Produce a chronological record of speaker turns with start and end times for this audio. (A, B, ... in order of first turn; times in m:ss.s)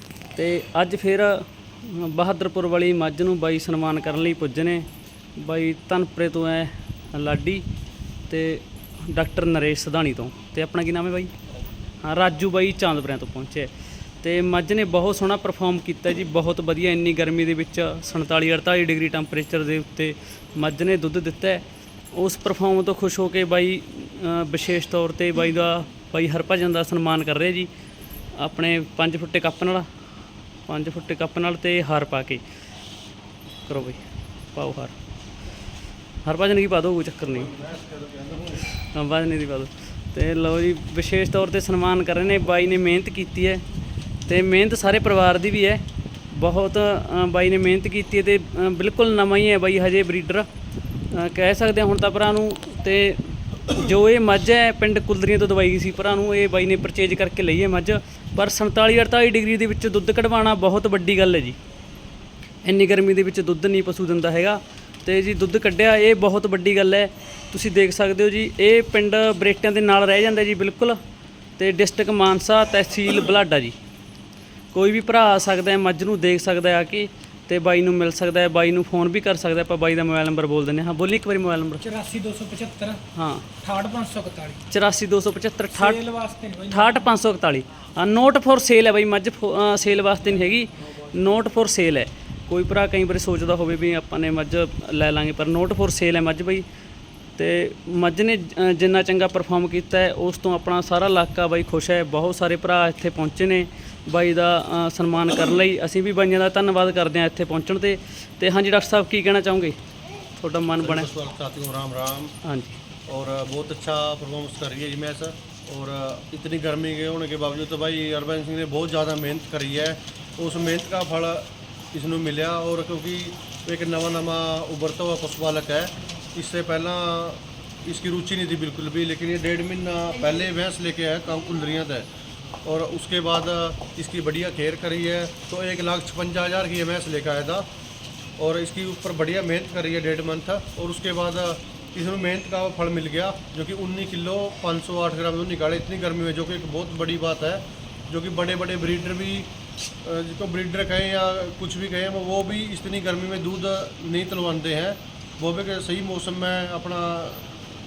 0:00.3-0:07.6 A
0:08.3-0:11.3 A
0:12.0-0:13.7 A
0:14.2-0:27.7 A
0:28.4-0:29.9 A
0:30.7-0:32.4 A
0:33.6-0:34.9 A
0:36.2-0:37.5 A
0:37.4-0:38.6 B
0:38.8-0:43.6 A
0:44.2-0:50.5 A
0:51.1-1:01.6 A
1:02.6-1:11.0 A
1:11.6-1:13.8 A
1:14.7-1:21.8 A
1:21.8-1:23.0 C
1:23.2-1:23.4 A
1:23.6-1:24.6 C
1:24.7-1:26.0 A
1:25.7-1:27.1 C
1:26.7-1:36.6 A
1:37.4-1:49.8 A
1:50.4-1:51.1 A
1:50.8-1:52.3 B
1:52.4-1:52.8 A
1:53.1-2:12.1 B
2:12.6-2:17.7 B
2:18.4-2:29.5 B
2:30.0-2:37.5 B